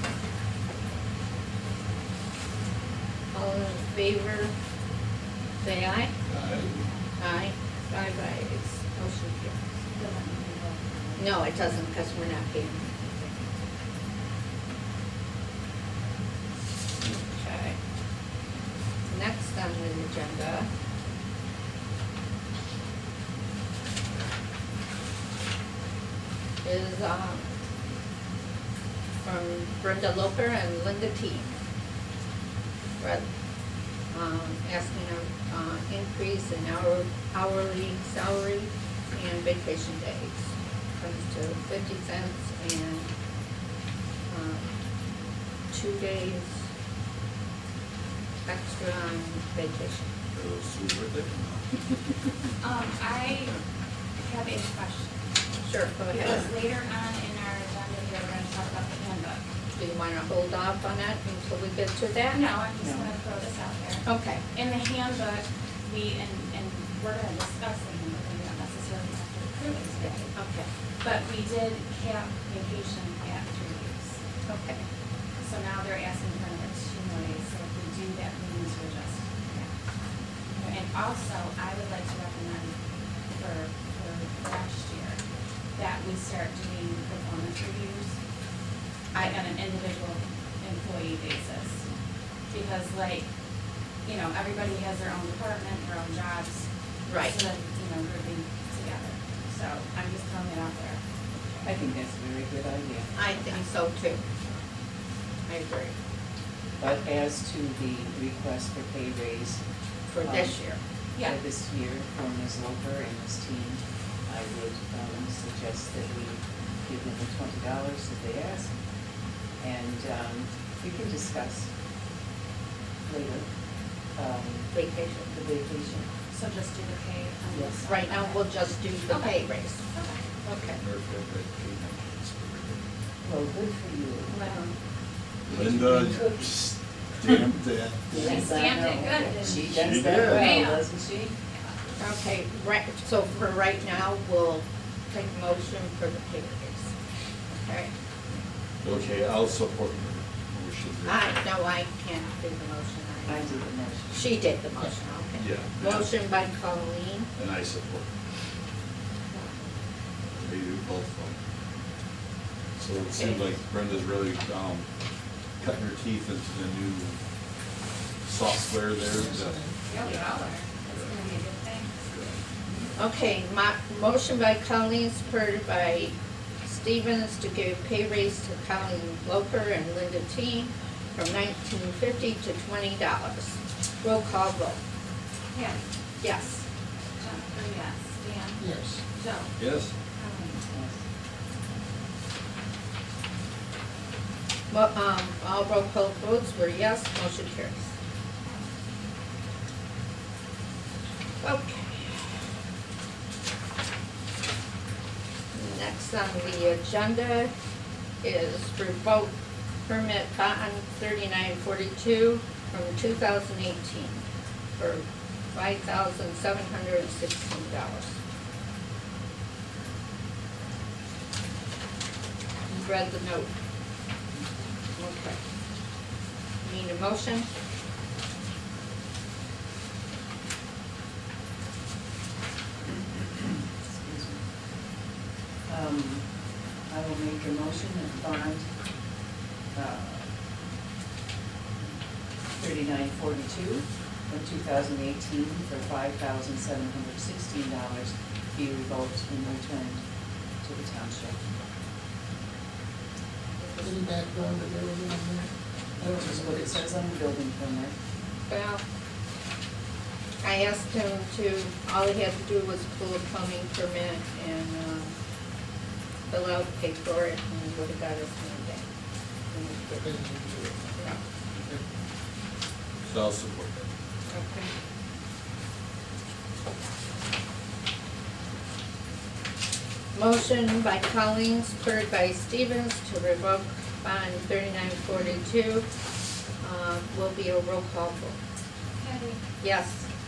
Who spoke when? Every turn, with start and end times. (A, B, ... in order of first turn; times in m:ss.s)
0:03.3-0:04.5 A
0:05.6-0:06.1 A
0:06.3-0:06.8 B
0:07.2-0:09.6 A
0:09.8-0:11.4 C
0:11.2-0:13.5 A
0:17.0-0:17.8 A
0:19.1-0:20.7 A
0:26.6-0:27.5 A
0:29.2-0:31.5 A
0:33.0-0:33.2 A
0:34.1-0:43.1 A
0:44.3-0:44.7 A
0:45.7-0:46.6 A
0:48.4-0:50.1 A
0:50.3-0:51.8 B
0:52.6-0:53.6 C
0:54.2-0:55.1 C
0:55.6-0:56.5 A
0:56.1-0:59.4 C
0:59.7-1:02.4 A
1:02.3-1:10.4 C
1:02.8-1:03.1 D
1:04.0-1:04.4 A
1:10.3-1:10.7 A
1:11.0-1:14.2 C
1:14.5-1:14.8 A
1:15.4-1:19.7 C
1:20.5-1:22.7 C
1:23.3-1:25.2 C
1:25.8-1:28.2 C
1:29.1-1:31.8 C
1:32.5-1:33.3 C
1:34.0-1:36.7 C
1:37.1-1:37.4 A
1:37.2-1:41.0 C
1:41.6-1:43.4 D
1:43.1-1:44.4 A
1:45.5-1:45.9 A
1:46.8-1:49.6 D
1:50.1-1:50.8 A
1:50.2-1:58.7 D
1:59.6-2:01.7 D
2:03.0-2:03.5 D
2:04.2-2:04.7 D
2:04.7-2:05.3 A
2:05.3-2:06.1 D
2:06.3-2:08.5 C
2:07.5-2:07.8 D
2:07.8-2:09.8 A
2:09.1-2:10.2 C
2:10.4-2:10.8 A
2:10.7-2:12.8 B
2:13.2-2:14.5 D
2:14.3-2:14.7 C
2:15.5-2:17.7 B
2:15.5-2:16.7 D
2:17.6-2:18.4 E
2:18.1-2:21.4 D
2:18.2-2:20.9 C
2:19.7-2:20.6 B
2:21.5-2:21.8 C
2:22.0-2:26.9 A
2:27.5-2:27.9 A
2:28.8-2:31.5 B
2:31.0-2:37.3 A
2:33.3-2:34.4 D
2:35.4-2:36.1 B
2:37.3-2:38.1 B
2:40.3-2:41.4 B
2:42.8-2:44.9 B
2:43.0-2:43.5 A
2:45.6-2:47.2 B
2:48.2-2:49.6 B
2:49.1-2:49.6 E
2:49.8-2:52.0 C
2:50.9-2:51.1 B
2:52.1-2:52.4 B
2:53.0-3:04.8 A
3:05.5-3:05.8 C
3:06.2-3:06.6 A
3:07.2-3:09.6 C
3:08.6-3:09.0 E
3:09.6-3:09.9 B
3:10.1-3:10.6 C
3:10.7-3:11.0 D
3:14.7-3:17.9 A
3:21.4-3:22.3 A
3:25.5-3:27.5 A
3:28.2-3:29.3 A
3:29.9-3:34.2 A
3:34.8-3:38.2 A
3:42.7-3:43.5 A
3:45.0-3:45.4 A
3:46.6-3:47.5 A
3:53.8-3:54.4 D
3:55.7-3:56.3 D
3:56.9-3:58.7 D
3:59.7-4:00.2 D
4:02.6-4:10.0 D
4:10.6-4:11.4 D
4:13.6-4:14.0 A
4:13.8-4:15.5 E
4:16.0-4:17.9 D
4:16.0-4:16.8 E
4:18.5-4:18.8 A
4:20.4-4:25.1 A
4:26.3-4:28.8 A
4:29.5-4:31.2 A
4:30.0-4:30.8 E
4:33.0-4:33.8 B
4:34.3-4:34.7 A
4:40.1-4:45.9 A
4:46.6-4:48.4 A
4:48.9-4:49.4 C
4:49.6-4:50.0 A